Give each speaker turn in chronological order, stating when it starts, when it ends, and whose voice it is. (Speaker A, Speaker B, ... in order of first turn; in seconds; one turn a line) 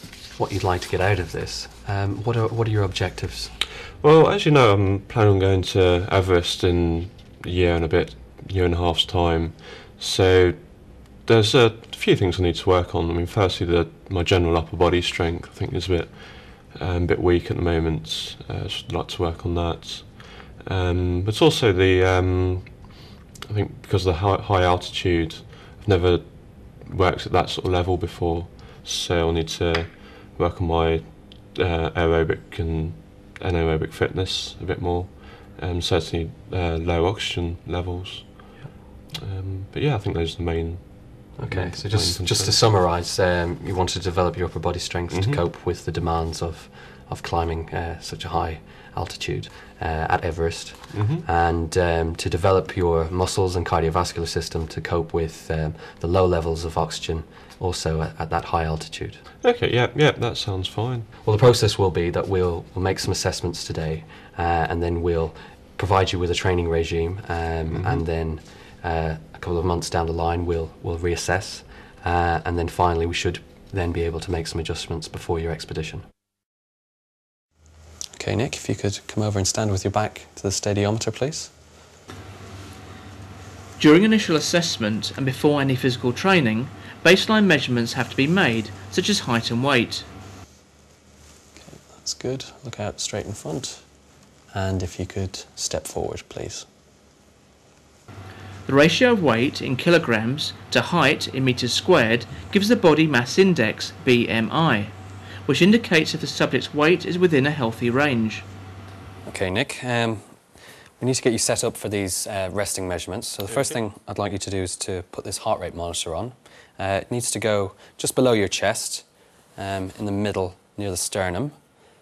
Speaker A: 0.3-3.5
Speaker B: 4.0-42.6
Speaker A: 41.4-59.2
Speaker B: 45.1-45.4
Speaker B: 50.9-51.2
Speaker B: 59.4-61.1
Speaker A: 61.2-76.0
Speaker B: 67.7-68.0
Speaker A: 78.1-81.5
Speaker C: 83.8-90.1
Speaker A: 91.6-93.8
Speaker A: 94.5-96.7
Speaker C: 98.6-108.5
Speaker A: 109.2-110.4
Speaker A: 111.0-121.5